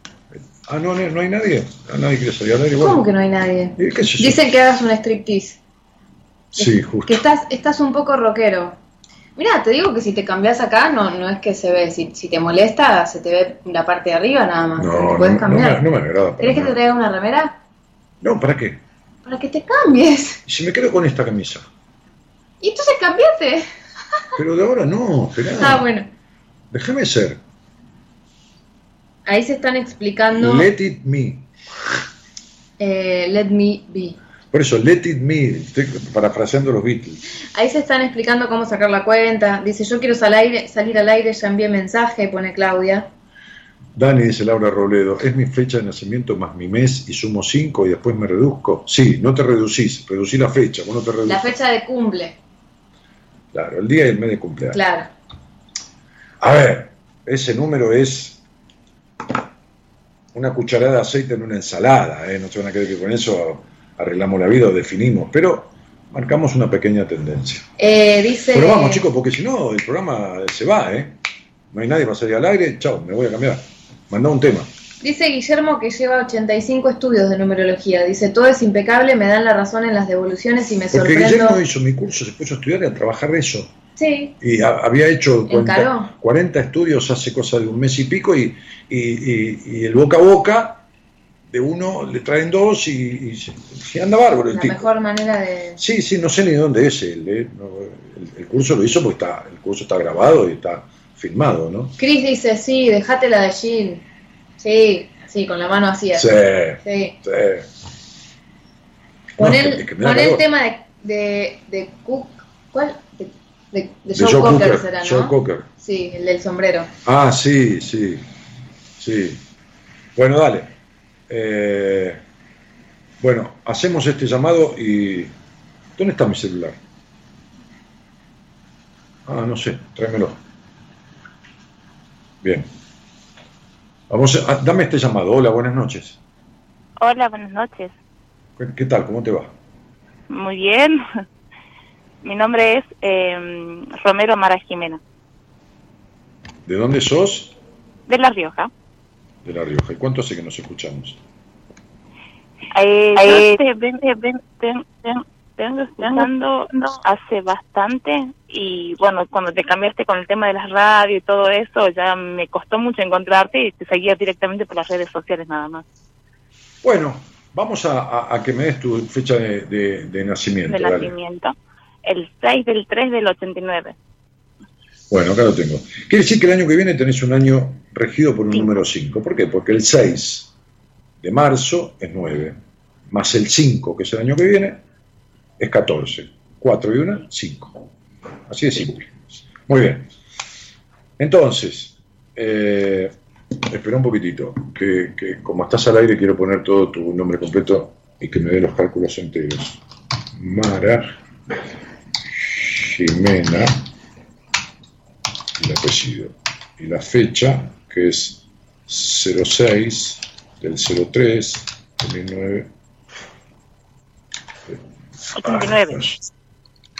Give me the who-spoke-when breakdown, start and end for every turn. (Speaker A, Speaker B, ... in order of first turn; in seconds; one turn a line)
Speaker A: 0.3-3.0
Speaker B: 2.8-5.6
Speaker A: 3.8-4.4
Speaker A: 6.5-7.2
Speaker B: 6.6-8.8
Speaker B: 9.3-15.8
Speaker A: 14.8-16.8
Speaker B: 16.4-17.6
Speaker A: 18.2-18.8
Speaker B: 19.2-20.4
Speaker A: 20.4-21.7
Speaker B: 22.6-23.7
Speaker A: 24.4-25.8
Speaker B: 25.6-26.1
Speaker A: 26.7-27.4
Speaker B: 29.2-30.7
Speaker A: 30.3-31.5
Speaker B: 32.8-34.2
Speaker A: 34.5-37.2
Speaker B: 37.5-43.1
Speaker A: 43.9-51.5
Speaker B: 51.2-52.4
Speaker A: 53.5-54.8
Speaker B: 54.7-55.1
Speaker A: 56.4-58.4
Speaker A: 60.3-67.7
Speaker B: 67.8-69.0
Speaker A: 68.5-71.2
Speaker A: 71.7-74.7
Speaker B: 75.0-81.6
Speaker A: 80.9-83.7
Speaker B: 84.0-84.3
Speaker A: 84.4-90.8
Speaker B: 85.5-86.1
Speaker A: 91.5-94.8
Speaker B: 94.5-95.8
Speaker A: 95.8-101.9
Speaker B: 102.0-104.0
Speaker B: 104.6-107.2
Speaker A: 106.1-107.7
Speaker A: 109.4-110.4
Speaker B: 109.4-116.9
Speaker A: 114.1-115.7
Speaker A: 117.0-118.2
Speaker A: 119.0-119.4
Speaker A: 120.2-120.7
Speaker A: 121.3-122.2
Speaker A: 123.2-125.3
Speaker A: 126.0-126.8
Speaker A: 129.2-130.4
Speaker A: 132.4-132.7
Speaker A: 134.1-136.2
Speaker C: 137.0-137.9
Speaker A: 138.6-139.5
Speaker C: 140.3-141.0
Speaker C: 142.2-145.0
Speaker A: 146.7-147.5
Speaker C: 148.1-148.7
Speaker A: 149.4-151.2
Speaker C: 152.8-165.8
Speaker A: 166.8-171.1
Speaker C: 170.7-173.9
Speaker A: 175.1-180.5
Speaker A: 181.2-182.6
Speaker A: 183.1-184.8
Speaker A: 185.6-187.8
Speaker A: 188.5-190.1
Speaker A: 191.2-199.8
Speaker A: 200.3-201.2
Speaker A: 202.5-203.8
Speaker A: 205.6-212.7
Speaker C: 215.4-216.0
Speaker A: 215.4-216.2